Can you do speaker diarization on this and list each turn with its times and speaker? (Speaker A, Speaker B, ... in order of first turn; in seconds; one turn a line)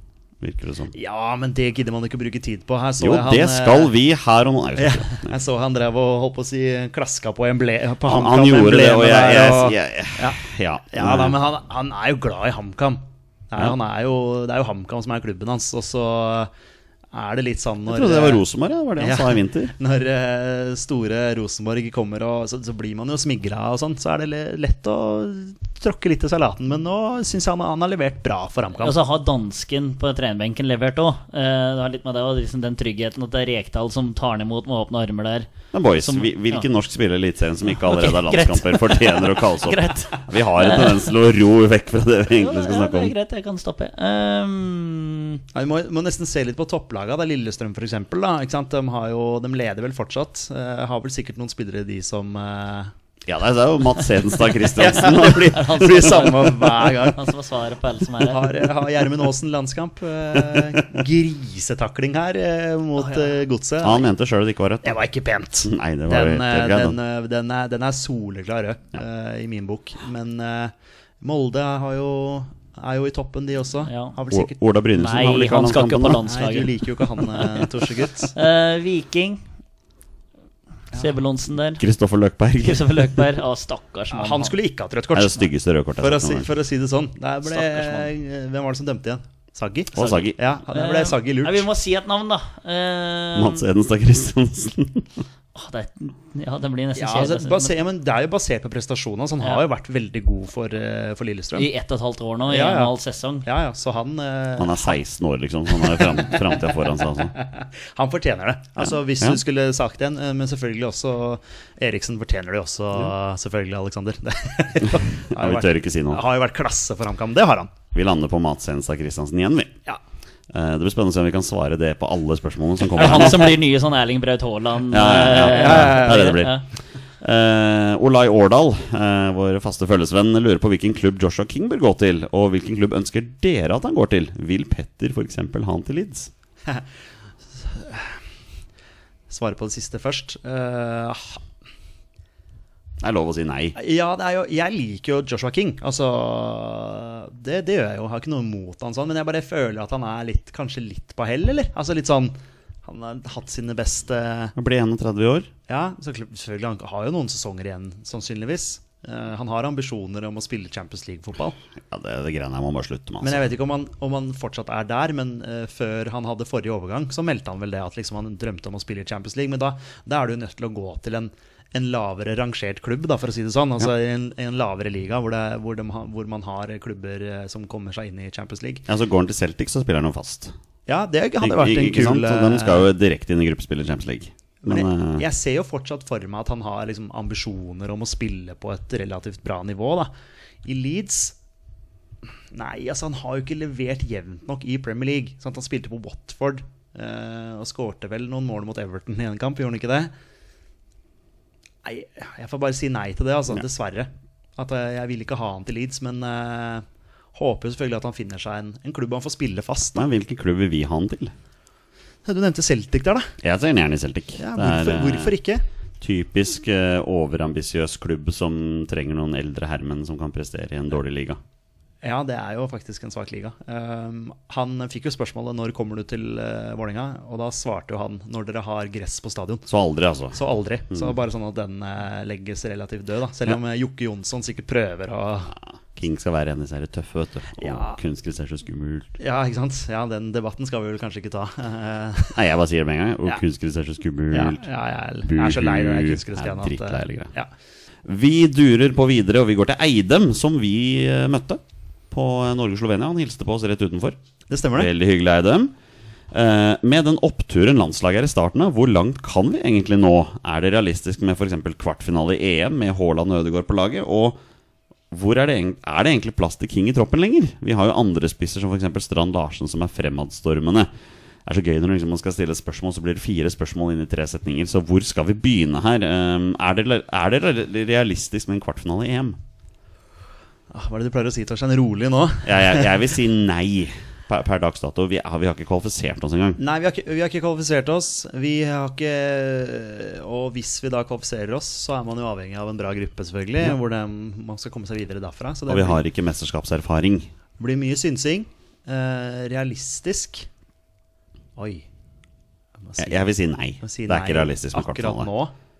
Speaker A: 0.4-0.9
Speaker B: 0.9-3.9
Speaker A: 3.0-5.3
Speaker B: 4.8-10.4
Speaker A: 8.1-11.4
Speaker B: 10.9-16.5
Speaker B: 17.1-18.4
Speaker A: 17.9-19.7
Speaker B: 19.0-29.0
Speaker C: 28.8-36.6
Speaker A: 35.7-43.1
Speaker C: 37.8-41.1
Speaker C: 42.4-45.4
Speaker B: 45.5-52.9
Speaker A: 53.2-56.3
Speaker B: 54.7-57.2
Speaker C: 55.5-58.6
Speaker B: 58.2-64.1
Speaker A: 60.4-60.8
Speaker C: 63.0-63.3
Speaker A: 63.8-65.0
Speaker B: 64.8-74.6
Speaker A: 65.6-67.0
Speaker C: 73.9-74.2
Speaker A: 74.3-76.2
Speaker C: 75.0-77.2
Speaker B: 76.2-78.3
Speaker C: 78.3-79.4
Speaker C: 80.9-81.8
Speaker A: 81.8-83.2
Speaker C: 82.6-84.5
Speaker B: 84.1-85.5
Speaker A: 85.1-86.5
Speaker B: 86.0-91.7
Speaker C: 87.5-88.1
Speaker A: 89.9-90.4
Speaker C: 90.0-93.6
Speaker A: 93.3-95.2
Speaker C: 95.5-97.7
Speaker B: 97.0-101.7
Speaker C: 101.6-103.5
Speaker B: 102.5-105.0
Speaker A: 104.6-107.3
Speaker B: 105.8-106.7
Speaker B: 107.3-117.7
Speaker A: 115.3-116.2
Speaker A: 117.9-119.8
Speaker A: 120.5-123.6
Speaker C: 123.0-126.6
Speaker A: 124.9-126.6
Speaker B: 125.3-126.4
Speaker A: 127.2-136.3
Speaker B: 137.6-138.2
Speaker B: 139.3-141.4
Speaker A: 143.0-143.8
Speaker B: 143.8-154.5
Speaker A: 154.6-155.5
Speaker B: 155.7-161.6
Speaker A: 161.8-163.5
Speaker B: 163.2-178.8
Speaker A: 178.9-180.5
Speaker B: 180.9-182.9
Speaker A: 181.4-185.2
Speaker B: 184.6-190.1
Speaker B: 190.6-191.4
Speaker B: 192.5-200.1
Speaker B: 201.8-210.1
Speaker A: 210.0-211.3
Speaker B: 212.2-213.3
Speaker A: 213.4-215.3
Speaker B: 214.4-215.6
Speaker A: 216.0-221.4
Speaker B: 222.0-229.7
Speaker A: 229.7-230.4
Speaker B: 230.3-235.5
Speaker A: 235.9-239.1
Speaker B: 237.6-238.0
Speaker B: 239.2-242.4
Speaker A: 242.3-244.6
Speaker B: 244.3-247.5
Speaker A: 245.2-247.3
Speaker A: 248.1-254.2
Speaker B: 254.5-254.9
Speaker A: 254.8-255.7
Speaker A: 256.3-264.4
Speaker A: 265.1-270.9
Speaker A: 271.5-279.4
Speaker B: 280.7-283.0
Speaker A: 282.4-286.6
Speaker B: 286.6-296.0
Speaker A: 295.7-297.3
Speaker B: 297.6-300.5
Speaker B: 301.6-301.9
Speaker B: 302.8-303.3
Speaker A: 303.0-305.3
Speaker B: 303.8-305.5